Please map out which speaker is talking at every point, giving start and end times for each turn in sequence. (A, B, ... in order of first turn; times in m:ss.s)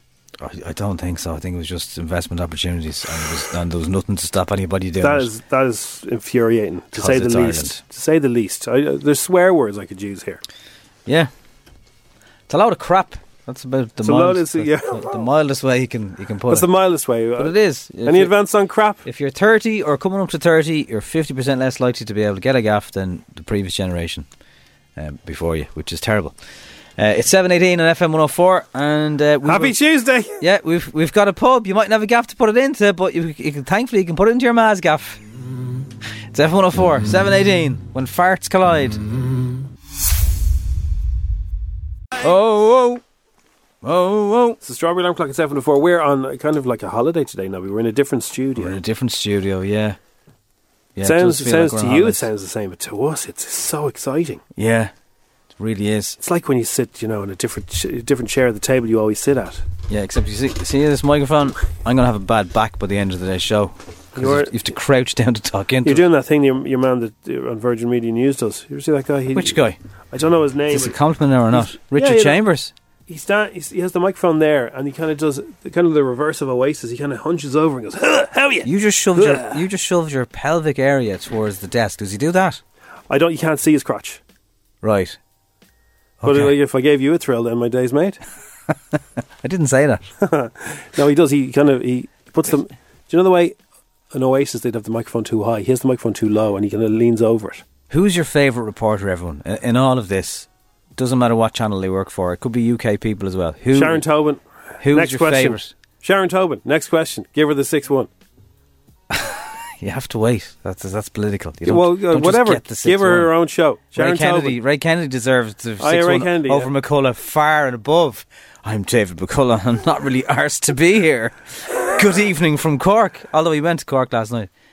0:00.4-0:05.3 A
0:05.0-0:10.4 B
0:07.0-0:07.8 A
0:12.5-0:16.6 A
0:14.0-0:15.1 B
0:16.5-0:19.0 B
0:17.4-0:18.3 A
0:19.0-0:24.2 A
0:25.0-0:26.3 A
0:27.0-0:29.8 A
0:29.4-0:30.4 B
0:30.4-0:35.2 A
0:36.3-0:39.0 A
0:42.2-0:43.0 A
0:43.8-0:44.6 A
0:44.6-0:48.8 B
0:48.6-0:50.0 A
0:51.0-0:52.3 A
0:51.0-0:54.4 B
0:54.6-0:54.9 A
0:55.6-0:56.2 A
0:56.2-0:59.6 B
0:59.9-1:06.0 A
1:04.2-1:04.6 B
1:05.8-1:09.6 B
1:09.3-1:09.8 A
1:10.1-1:11.0 B
1:10.7-1:12.7 A
1:11.5-1:12.4 B
1:13.1-1:19.6 B
1:18.6-1:22.6 A
1:23.1-1:24.2 B
1:24.8-1:25.2 A
1:26.2-1:26.5 A
1:26.2-1:28.2 B
1:29.4-1:30.0 A
1:30.2-1:33.5 B
1:34.1-1:37.6 B
1:37.9-1:44.0 A
1:43.7-1:48.1 B
1:44.8-1:45.7 A
1:49.1-1:53.3 A
1:51.6-1:54.6 B
1:53.9-2:04.5 A
1:55.8-1:56.7 B